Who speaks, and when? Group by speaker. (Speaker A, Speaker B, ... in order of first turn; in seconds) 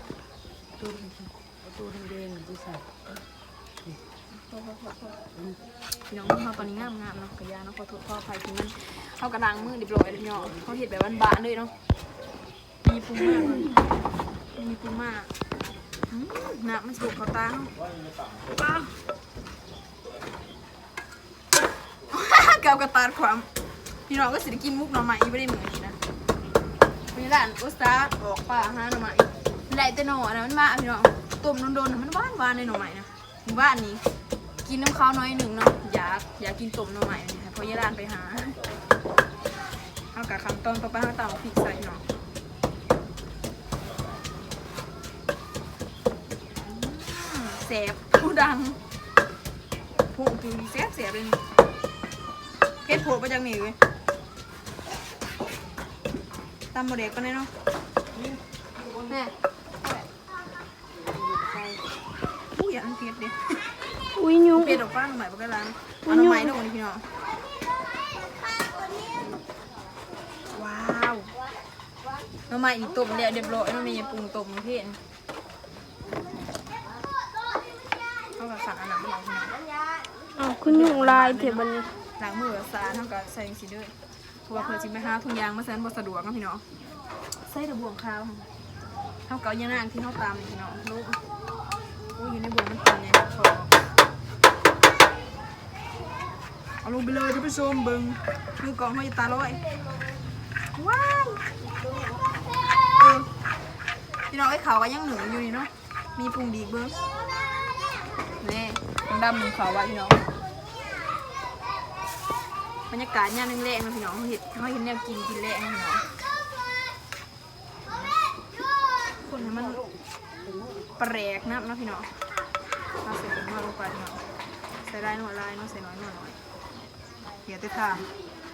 Speaker A: 0.8-2.9, 5.3-5.6, 61.0-61.9, 119.4-121.0
Speaker B: 4.3-5.2, 6.1-11.7, 12.8-13.8, 14.5-15.3, 16.1-17.7, 18.5-18.9, 22.1-23.5, 24.1-26.0, 27.1-34.0, 34.6-38.6, 40.1-42.0, 46.6-48.8, 50.1-51.4, 52.8-53.8, 56.7-57.5, 59.1-60.1, 62.5-63.8, 64.5-67.0, 70.5-71.3, 72.5-75.0, 78.4-79.6, 80.6-81.7, 82.2-86.6, 87.4-88.5, 89.3-91.2, 92.2-93.7, 96.8-99.6, 100.7-101.5, 102.9-103.3, 104.3-107.0, 108.4-110.2, 112.9-116.2, 119.2-119.8, 121.0-122.2, 123.0-124.2, 124.8-126.4, 127.5-128.1
Speaker C: 64.2-64.8, 66.1-66.6, 80.4-81.9